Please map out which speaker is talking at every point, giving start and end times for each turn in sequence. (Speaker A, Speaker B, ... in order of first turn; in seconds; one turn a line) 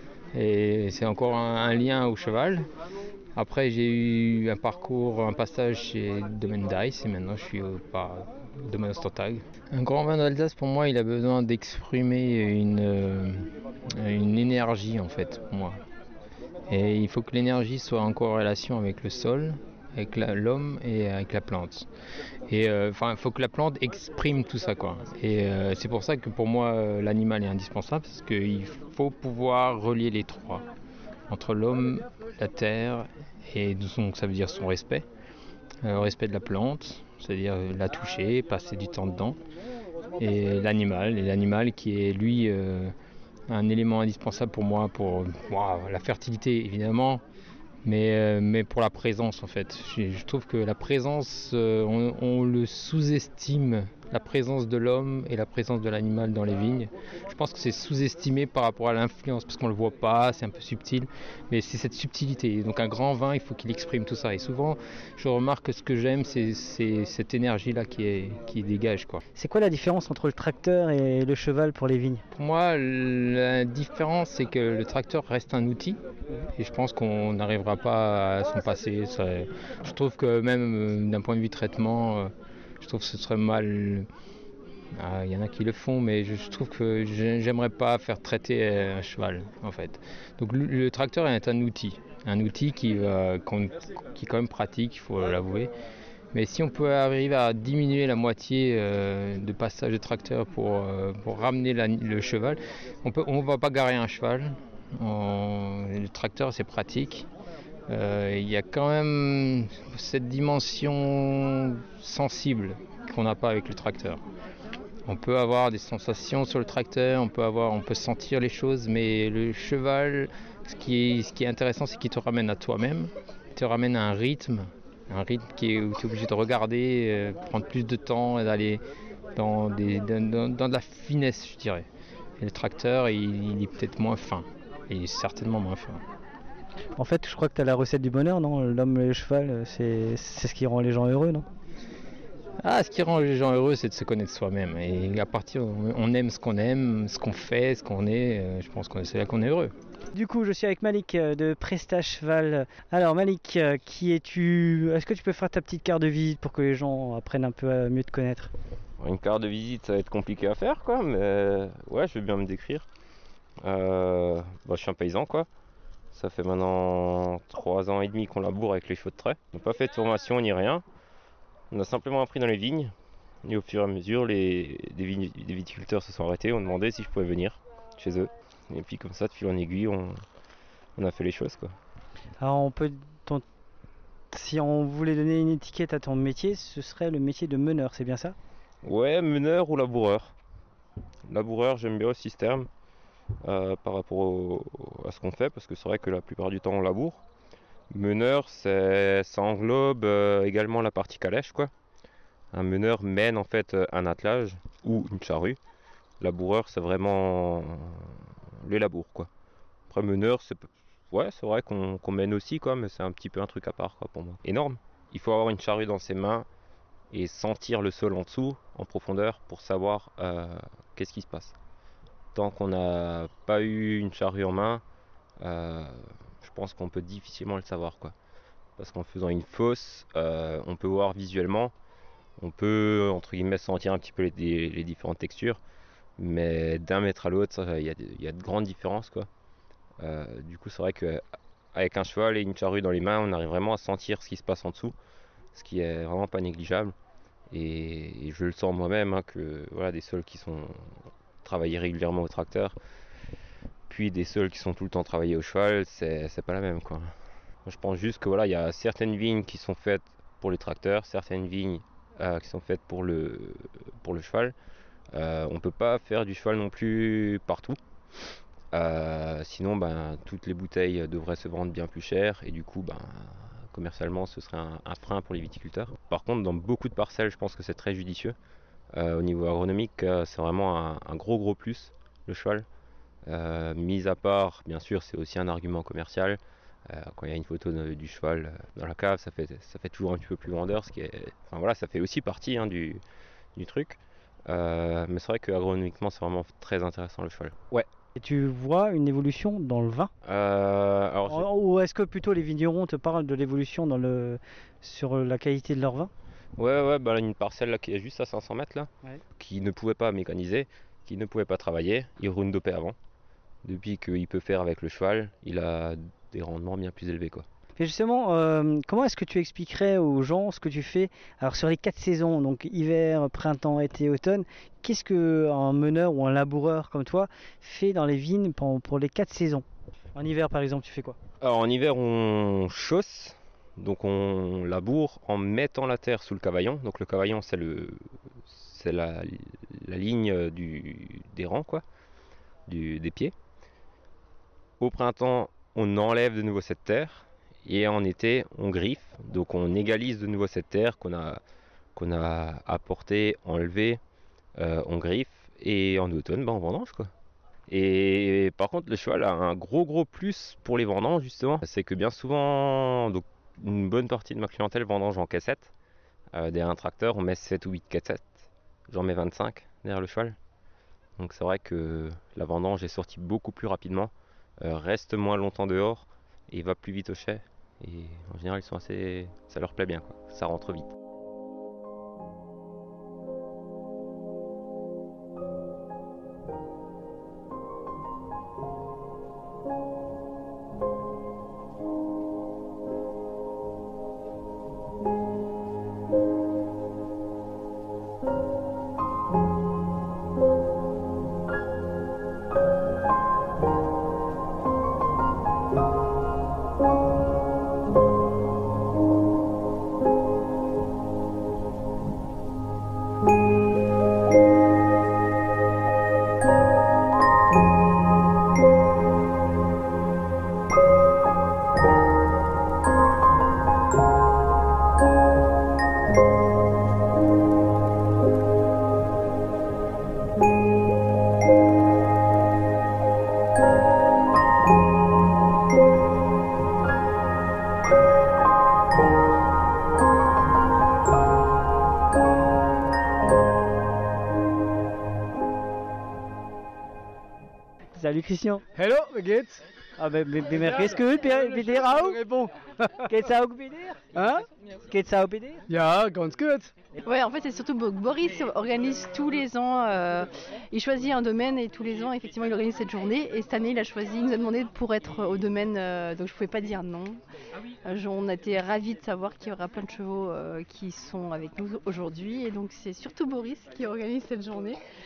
Speaker A: 0.3-2.7
Speaker A: 3.4-15.8
Speaker A: 16.7-21.9
Speaker A: 22.5-30.6
Speaker A: 31.3-35.0
Speaker A: 35.8-39.4
Speaker A: 40.2-42.9
Speaker A: 43.5-47.2
Speaker A: 47.8-69.2
Speaker B: 69.4-72.2
Speaker A: 72.3-76.0
Speaker A: 76.5-84.1
Speaker A: 85.0-95.7
Speaker A: 96.3-107.3
Speaker A: 107.9-114.2
Speaker A: 115.1-128.8
Speaker A: 129.3-131.8
Speaker A: 132.4-136.0
Speaker B: 137.0-141.4
Speaker A: 142.6-149.7
Speaker B: 150.1-158.5
Speaker C: 159.0-162.8
Speaker C: 163.6-165.5
Speaker C: 166.1-170.8
Speaker C: 171.7-172.9
Speaker C: 173.4-180.2
Speaker C: 181.0-181.7
Speaker B: 182.4-183.4
Speaker B: 184.3-188.3
Speaker C: 188.8-190.3
Speaker C: 191.3-192.7
Speaker C: 193.4-197.2
Speaker C: 197.9-201.7
Speaker C: 202.5-205.6
Speaker C: 206.2-209.3
Speaker C: 209.9-216.4
Speaker C: 217.1-221.5
Speaker C: 222.3-224.8
Speaker C: 225.4-228.1
Speaker C: 228.8-231.7
Speaker C: 232.4-235.6
Speaker C: 236.2-239.3
Speaker C: 240.0-241.2
Speaker C: 241.7-244.9
Speaker C: 245.5-246.9
Speaker C: 247.5-250.8
Speaker C: 251.4-252.7
Speaker C: 253.9-257.1
Speaker C: 257.6-264.5
Speaker C: 265.1-267.8
Speaker C: 268.7-278.4
Speaker C: 278.9-282.6
Speaker C: 283.2-293.0
Speaker C: 293.5-297.8
Speaker B: 298.2-300.1
Speaker C: 300.2-301.5
Speaker B: 301.3-306.1
Speaker C: 306.6-312.9
Speaker C: 313.6-317.4
Speaker B: 317.8-331.2
Speaker C: 331.4-341.8
Speaker C: 342.7-343.3
Speaker C: 344.8-351.4
Speaker C: 351.9-354.0
Speaker C: 354.6-357.1
Speaker C: 357.7-365.7
Speaker C: 366.3-370.4
Speaker C: 371.2-380.9
Speaker B: 447.9-448.6
Speaker D: 448.8-449.6
Speaker B: 450.0-452.2
Speaker D: 450.5-453.0
Speaker B: 453.1-454.2
Speaker D: 454.1-454.4
Speaker B: 454.9-455.6
Speaker D: 455.7-456.7
Speaker E: 457.0-467.2
Speaker E: 467.9-474.8